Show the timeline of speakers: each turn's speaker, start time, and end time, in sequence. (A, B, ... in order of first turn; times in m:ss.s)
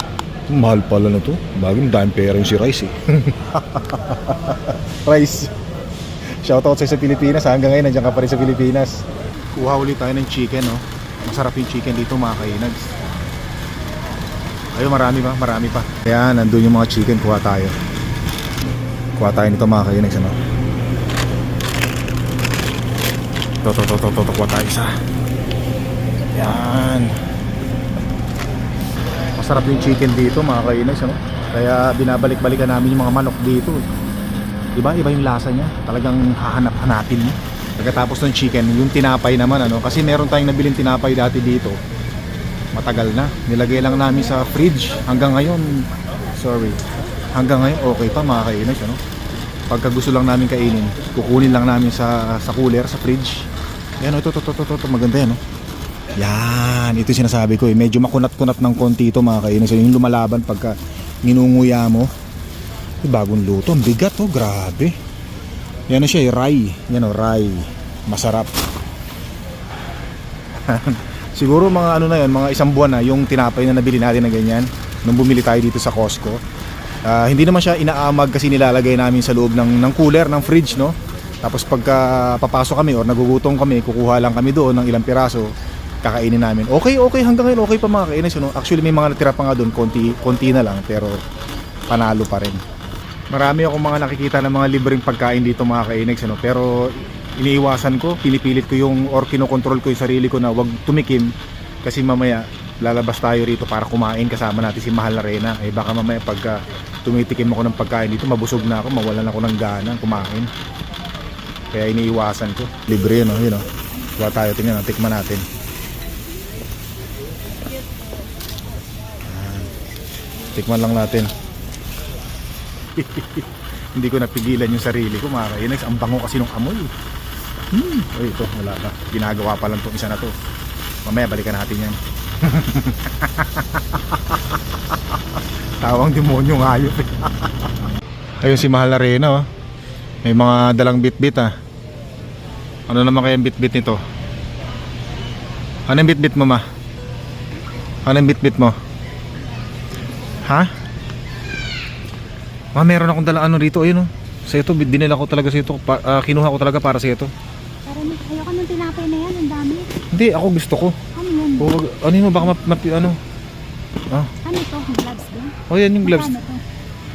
0:00.5-0:05.5 A
0:06.4-0:13.1 A
0:14.7-0:17.7 A
0:19.2-0:20.4 A
0:23.6-0:24.9 A
0:26.3-0:27.2 A
0:29.4-0:33.9 A
0:34.7-0:41.8 A
0:42.7-0:46.8 A
0:47.3-0:49.0 A
0:49.7-0:53.4 A
0:54.0-0:55.4 A
0:56.2-1:02.1 A
1:03.0-1:04.9 A
1:05.9-1:08.5 A
1:10.6-1:16.4 A
1:17.0-1:25.5 A
1:26.0-1:31.2 A
1:31.9-1:32.6 A
1:33.3-1:41.3 A
1:41.8-1:50.5 A
1:51.7-1:55.4 A
1:59.2-1:59.7 A
2:00.5-2:01.3 A
2:02.9-2:06.9 A
2:07.7-2:10.3 A
2:11.0-2:14.4 A
2:15.8-2:17.7 A
2:18.4-2:19.4 A
2:20.2-2:21.5 A
2:22.9-2:24.0 A
2:25.9-2:26.6 A
2:28.0-2:28.7 A
2:32.7-2:37.3 A
2:37.8-2:39.9 B
2:40.1-2:41.0 A
2:41.1-2:41.7 B
2:41.6-2:43.2 A
2:44.4-2:45.5 B
2:45.7-2:46.4 A
2:46.0-2:46.6 B